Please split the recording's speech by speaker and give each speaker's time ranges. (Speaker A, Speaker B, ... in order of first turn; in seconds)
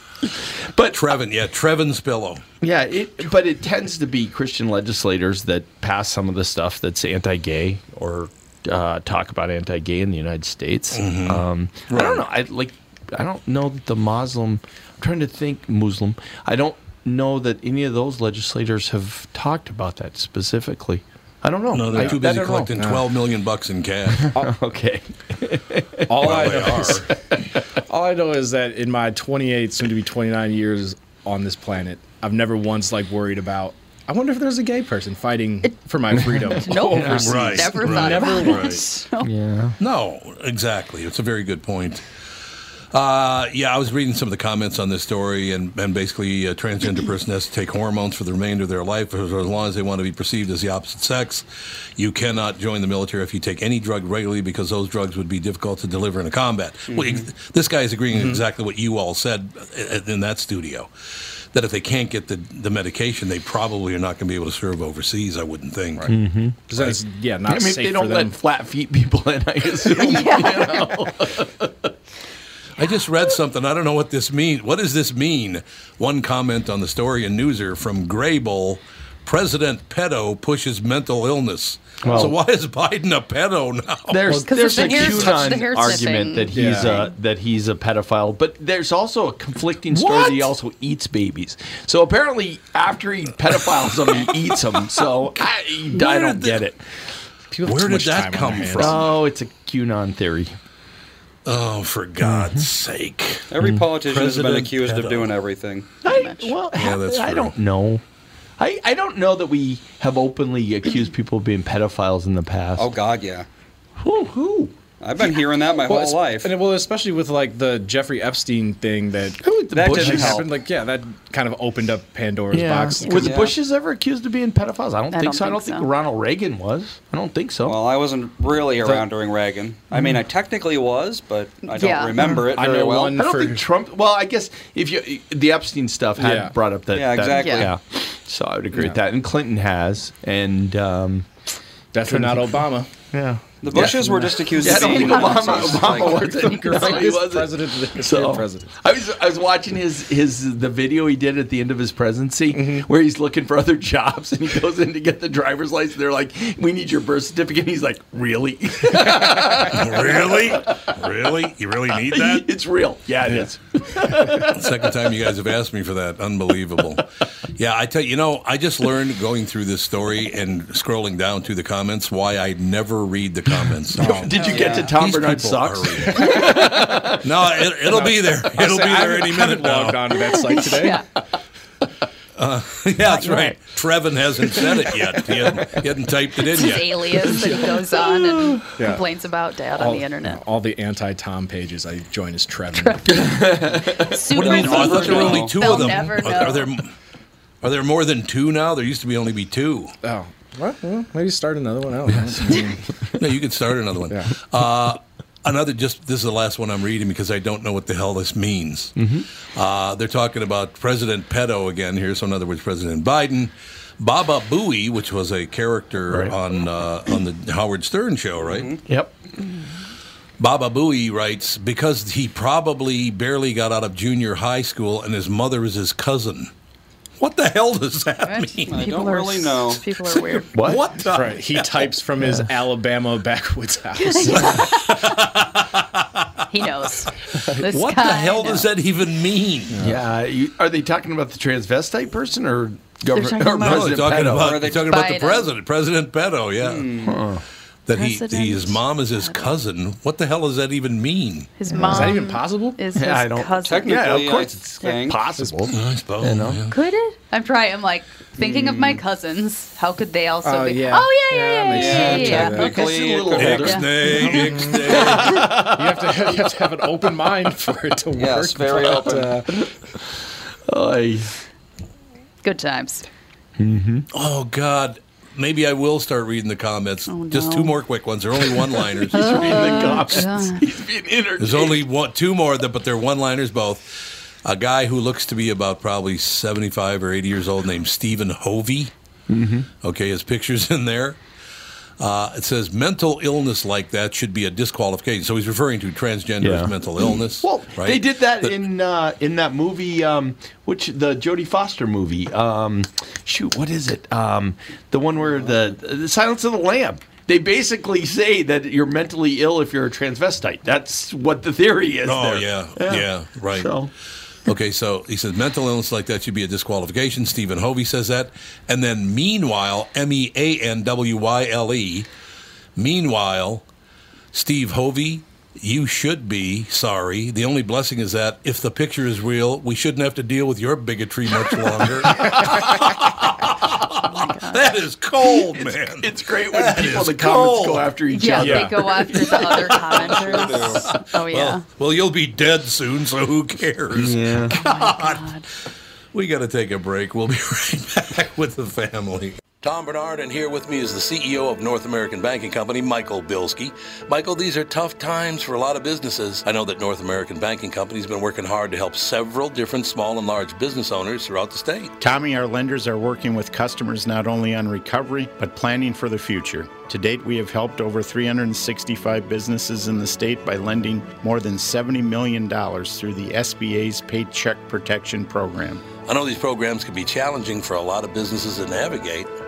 Speaker A: 0.2-1.0, 2.6-22.7, 24.1-27.6, 36.1-38.3, 39.2-39.8, 66.1-66.6, 67.5-71.9, 82.0-82.4, 84.1-96.8, 98.7-100.5, 102.2-102.7, 103.6-103.9, 106.0-108.0, 108.6-112.9, 114.0-114.7, 119.4-120.5, 122.5-127.8, 129.9-130.2, 133.1-141.3, 142.1-160.9, 162.0-164.8, 174.0-177.3, 187.9-188.6, 193.1-194.2, 195.1-195.4, 202.1-202.7, 208.9-209.3, 216.1-216.3, 218.8-219.3, 230.5-230.9, 239.8-244.6, 247.0-247.4, 251.7-252.2, 252.9-256.7, 262.0-266.4, 269.5-270.0, 270.7-271.4, 273.6-274.1, 278.9-281.8, 289.3-289.7, 296.4-313.9, 335.5-339.8, 343.9-344.6
Speaker B: 0.9-2.4, 10.9-12.2, 21.7-24.2, 26.2-27.1, 37.2-38.8, 39.8-42.0, 42.9-51.4, 52.0-60.9, 61.5-66.1, 66.7-67.0, 72.8-84.2, 95.9-96.6, 97.6-99.1, 101.5-103.5, 104.0-105.3, 106.8-107.5, 159.6-162.5, 164.4-167.0, 167.6-174.3, 174.9-176.3, 177.2-180.2, 182.4-187.2, 194.3-196.9, 197.6-199.9, 203.2-208.9, 209.5-218.7, 220.4-226.5, 227.2-228.8, 230.1-231.9, 234.5-236.3, 237.6-239.8, 243.6-246.8, 247.8-251.5, 255.7-256.7, 263.4-265.5, 274.1-279.2, 281.4-288.9, 289.8-291.2, 292.0-298.6, 312.0-313.7, 314.4-322.1, 322.8-323.6, 324.3-337.9, 339.4-345.2, 346.1-361.9, 376.1-379.3
Speaker C: 21.9-23.0, 26.1-27.1, 27.9-38.8, 58.1-58.4, 66.0-68.4, 84.3-85.4, 86.5-87.1, 97.5-99.2, 115.8-123.4, 132.2-133.6, 136.2-136.5, 138.7-139.0, 141.9-142.9, 143.7-144.1, 146.4-148.7, 152.5-152.9, 173.9-174.4, 176.1-176.7, 177.9-181.0, 188.8-189.0, 189.7-193.1, 200.0-202.8, 231.1-234.7, 239.7-240.0, 251.7-252.8, 255.4-255.7, 260.4-262.8, 264.1-269.5, 338.4-338.7
Speaker D: 36.5-39.3, 69.9-71.1, 84.5-87.1, 106.0-106.6, 125.1-125.9, 131.7-132.2, 137.3-137.7, 144.6-146.8, 174.3-174.9, 180.2-181.0, 183.1-183.5, 186.5-190.4, 192.7-196.7, 228.2-230.5, 233.9-235.1, 236.5-238.7, 243.1-243.9, 244.9-245.5, 247.9-249.5, 251.6-254.1, 256.7-262.8, 263.6-263.9, 272.4-273.1, 277.1-277.8, 279.1-280.6, 333.9-334.8, 338.1-341.6, 344.6-345.4
Speaker E: 56.9-57.2, 103.5-105.9, 112.8-113.5, 115.0-116.5, 119.7-120.5, 123.2-123.6, 127.6-133.2, 136.9-137.7, 143.6-146.6, 174.5-174.9, 194.3-195.8, 218.4-218.8, 228.7-229.8, 244.3-244.9, 246.6-247.2, 253.6-255.2, 258.4-259.0, 261.7-263.9, 268.1-269.4, 340.0-340.8
Speaker F: 362.0-375.8